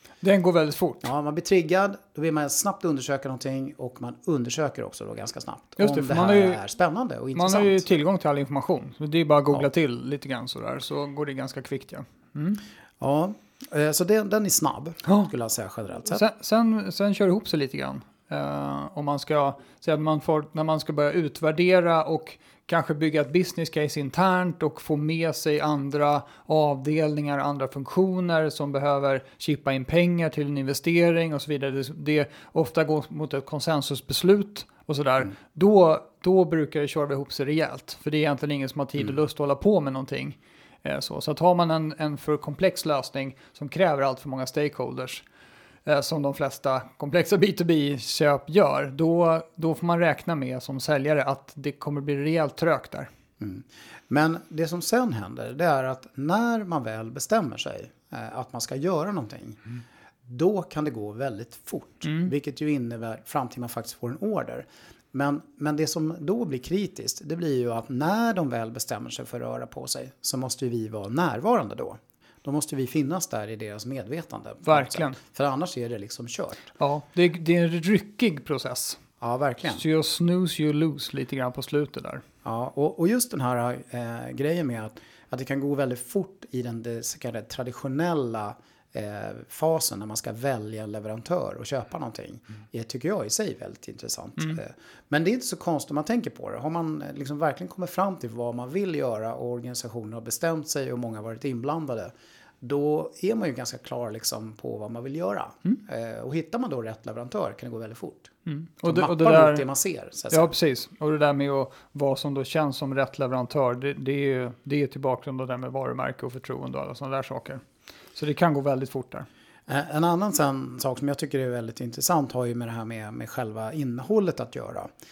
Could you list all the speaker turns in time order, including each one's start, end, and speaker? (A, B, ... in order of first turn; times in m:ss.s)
0:00.2-0:01.1 A
0:01.0-0:07.8 B
0:05.8-0:06.6 A
0:07.3-0:12.6 A
0:13.0-0:16.2 B
0:16.1-0:45.2 A
0:45.8-0:53.1 A
0:53.4-0:59.7 B
1:00.2-1:16.7 B
1:02.0-1:02.3 A
1:14.7-1:15.2 A
1:16.8-1:19.0 A
1:19.2-1:19.8 B
1:19.7-1:22.2 A
1:22.4-1:42.1 B
1:42.6-1:48.3 B
1:48.4-1:49.6 A
1:48.8-1:50.5 B
1:50.3-1:57.6 A
1:58.1-1:59.3 A
1:59.7-2:04.9 B